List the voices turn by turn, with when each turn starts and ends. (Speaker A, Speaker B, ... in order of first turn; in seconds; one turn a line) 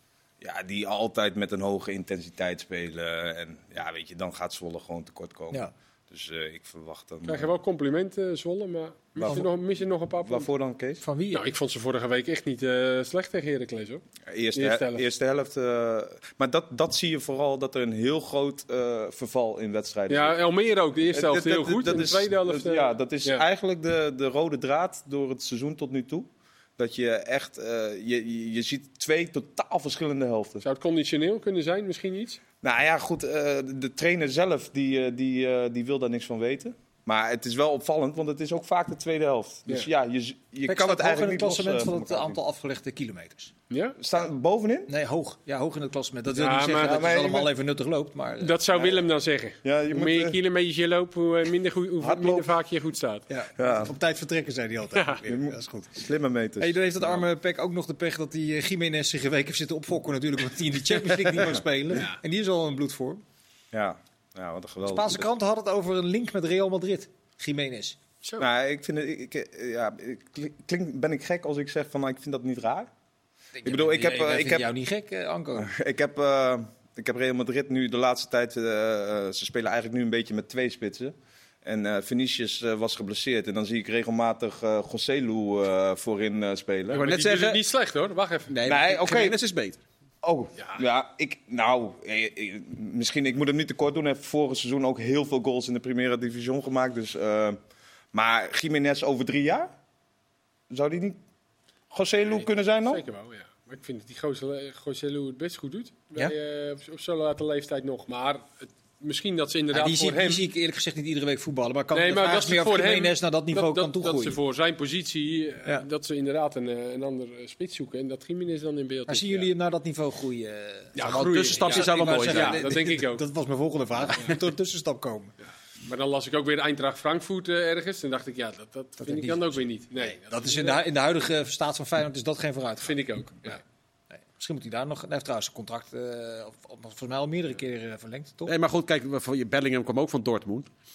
Speaker A: 0.4-7.5
Speaker B: 7.2-10.5
Speaker A: 9.2-9.5
Speaker A: 10.2-11.0
Speaker C: 11.0-11.4
Speaker B: 11.3-14.0
Speaker A: 14.3-20.4
Speaker B: 14.6-15.1
Speaker B: 20.1-23.4
Speaker A: 21.1-30.6
Speaker B: 30.6-32.4
Speaker A: 32.6-42.4
Speaker C: 40.7-43.5
Speaker B: 43.7-44.0
Speaker A: 44.0-44.9
Speaker C: 44.9-48.6
Speaker B: 46.3-47.0
Speaker A: 46.7-47.5
Speaker B: 48.4-53.3
Speaker A: 48.7-49.0
Speaker A: 49.6-50.4
Speaker A: 52.0-52.5
Speaker C: 53.3-56.0
Speaker A: 53.6-53.9
Speaker B: 54.9-55.2
Speaker A: 55.2-57.2
Speaker C: 56.6-63.2
Speaker B: 61.9-62.2
Speaker A: 63.7-65.3
Speaker C: 64.8-68.0
Speaker A: 68.4-72.9
Speaker C: 73.6-75.7
Speaker A: 73.6-74.7
Speaker A: 75.6-87.0
Speaker B: 86.9-88.5
Speaker D: 86.9-87.6
Speaker D: 88.5-89.8
Speaker A: 88.7-89.4
Speaker A: 90.2-97.6
Speaker B: 90.6-90.8
Speaker A: 98.1-99.7
Speaker A: 100.7-101.2
Speaker A: 101.9-103.0
Speaker B: 102.3-110.4
Speaker C: 109.7-114.4
Speaker B: 111.9-119.5
Speaker C: 119.1-125.3
Speaker B: 121.0-123.2
Speaker D: 121.0-122.7
Speaker B: 125.8-130.8
Speaker C: 129.0-133.5
Speaker B: 132.8-133.6
Speaker C: 134.1-138.5
Speaker D: 138.5-140.7